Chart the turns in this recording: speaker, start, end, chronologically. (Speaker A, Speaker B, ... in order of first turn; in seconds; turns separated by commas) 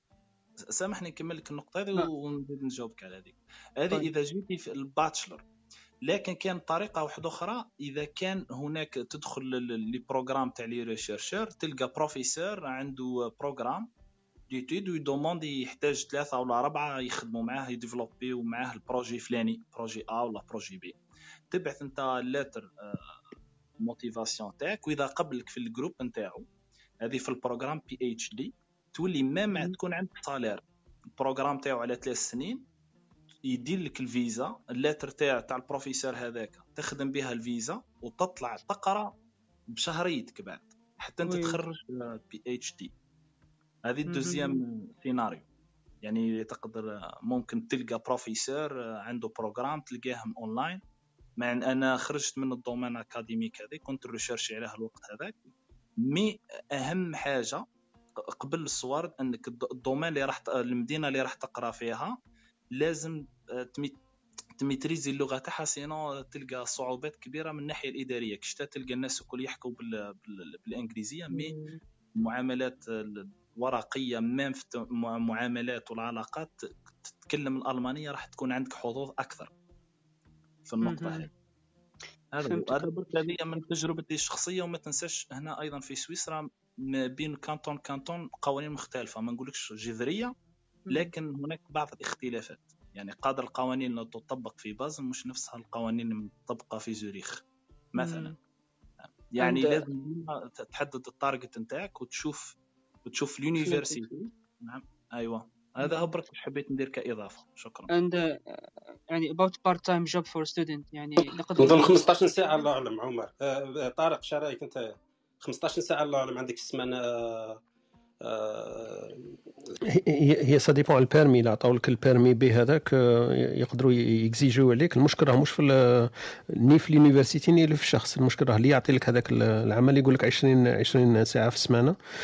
Speaker A: 0.7-5.4, Speaker A: 6.0-13.9, Speaker A: 14.5-21.0, Speaker A: 21.5-23.1, Speaker A: 23.8-26.4, Speaker A: 27.0-30.6, Speaker A: 31.1-32.6, Speaker A: 33.4-39.1, Speaker A: 39.7-42.9, Speaker B: 41.2-41.7, Speaker A: 43.9-45.4, Speaker B: 44.1-44.6, Speaker A: 46.0-50.8, Speaker A: 51.4-55.4, Speaker A: 56.0-57.6, Speaker A: 58.3-62.2, Speaker A: 62.8-64.0, Speaker A: 64.6-71.6, Speaker A: 72.2-79.5, Speaker A: 80.7-81.3, Speaker B: 80.8-81.3, Speaker A: 82.3-90.3, Speaker B: 82.4-82.9, Speaker A: 90.9-97.4, Speaker A: 97.9-98.4, Speaker B: 98.0-98.3, Speaker A: 99.0-107.9, Speaker B: 99.4-99.8, Speaker B: 103.6-104.0, Speaker B: 107.9-112.0, Speaker C: 111.6-117.6, Speaker C: 118.2-119.2, Speaker D: 119.9-131.9